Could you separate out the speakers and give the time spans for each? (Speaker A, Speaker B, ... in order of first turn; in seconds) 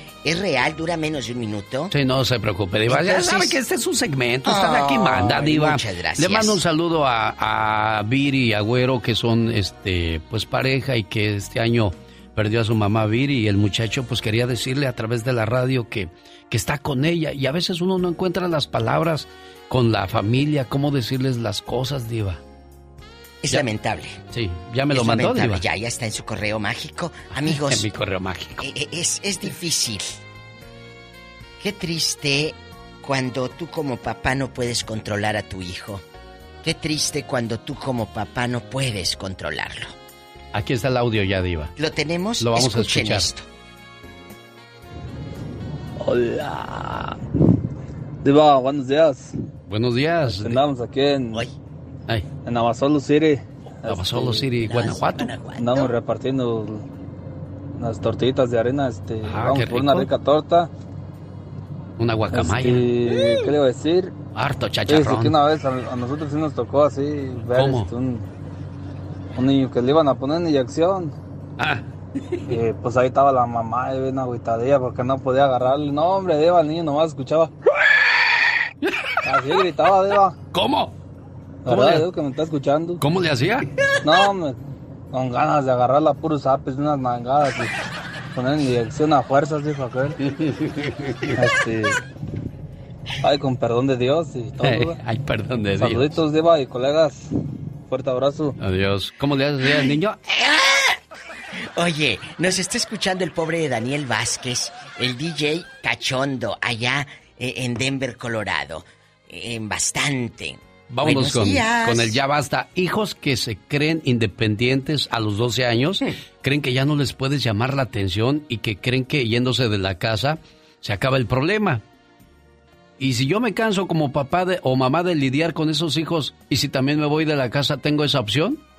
Speaker A: 0.2-1.9, 2.9-3.6, 4.4-6.6, 23.4-24.2, 24.9-27.8, 28.6-30.2, 31.6-36.0, 36.6-39.9, 41.8-43.5, 54.6-55.9, 99.6-101.0, 101.7-112.2
Speaker B: 1.9-22.4, 24.3-25.6, 27.3-28.7, 40.5-41.7, 42.4-43.3, 49.7-50.6, 53.9-55.4, 59.2-60.1, 62.0-63.3, 64.3-65.4, 67.5-67.9, 71.6-72.5, 78.8-79.1, 80.5-80.9, 81.7-82.1, 83.0-83.7, 90.2-91.4, 94.6-96.2, 98.6-100.2, 110.9-121.8, 123.0-128.6
Speaker C: 46.0-47.2, 48.2-49.3, 50.3-51.5, 52.4-54.5, 55.6-56.9, 57.8-60.7, 62.3-64.1, 64.9-68.2, 69.3-71.2, 72.5-77.5, 79.2-80.3, 81.7-83.0, 84.0-84.6, 85.1-87.7, 88.3-90.2, 91.3-92.0, 93.2-95.0, 95.8-97.3, 97.9-98.6